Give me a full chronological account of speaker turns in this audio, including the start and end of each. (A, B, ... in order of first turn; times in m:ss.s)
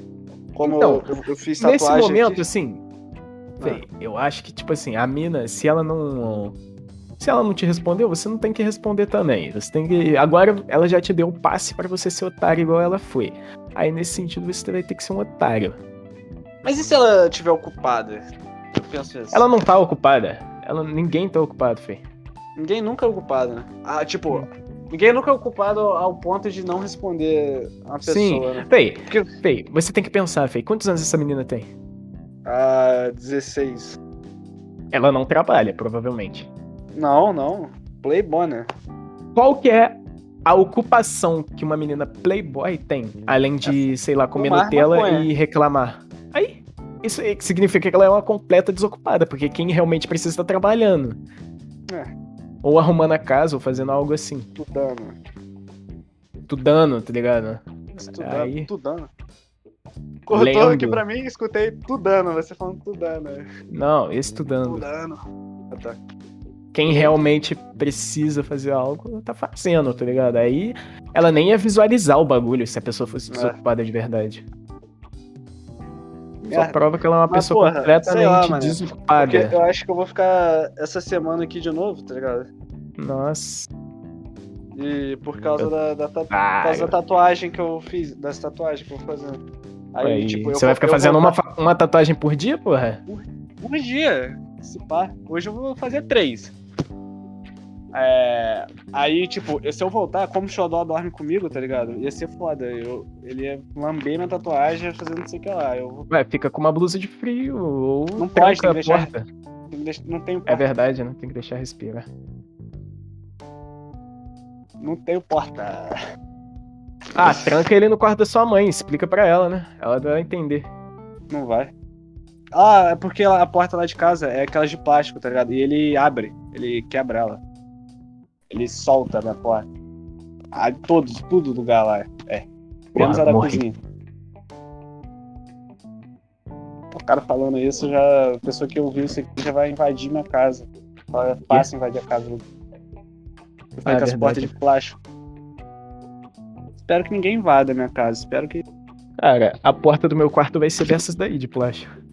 0:00.5-0:02.4 A
0:00.6-0:01.1 B
0:01.6-0:02.8 B
0:03.6-0:06.6 B
0:07.2-0:15.8 B
0:16.6-0:18.2 A
0:18.7-0:19.4 A
0:19.3-0:22.0 B
0:22.6-0:29.3 A
0:28.0-0:31.7 B
0:32.4-0:34.0 A
0:34.9-0:36.5 B
0:36.9-0:38.6 A
0:39.3-0:51.2 B
0:43.6-0:45.3 A
0:52.6-0:54.5 B
0:54.6-0:55.2 A
0:56.5-0:58.7 B
0:57.9-0:59.1 A
1:00.3-1:03.4 A
1:00.3-1:01.0 B
1:03.7-1:04.8 B
1:04.6-1:05.2 A
1:05.7-1:06.0 A
1:06.7-1:14.4 B
1:06.8-1:07.2 A
1:13.3-1:13.6 A
1:16.4-1:22.5 A
1:16.5-1:19.6 B
1:23.0-1:23.7 B
1:24.7-1:29.4 A
1:26.3-1:26.9 B
1:29.9-1:31.4 A
1:30.0-1:33.0 B
1:33.1-1:36.5 A
1:37.9-1:46.1 A
1:46.1-1:49.2 B
1:48.2-1:49.1 A
1:49.7-1:50.6 A
1:50.5-1:52.1 B
1:54.8-1:55.9 A
1:57.1-2:00.7 B
2:01.3-2:01.7 A
2:02.5-2:07.4 A
2:08.5-2:09.7 A
2:10.5-2:13.8 A
2:12.9-2:13.6 B
2:16.9-2:22.4 A
2:23.8-2:24.5 B
2:23.8-2:25.0 A
2:26.8-2:28.6 A
2:29.2-2:31.9 B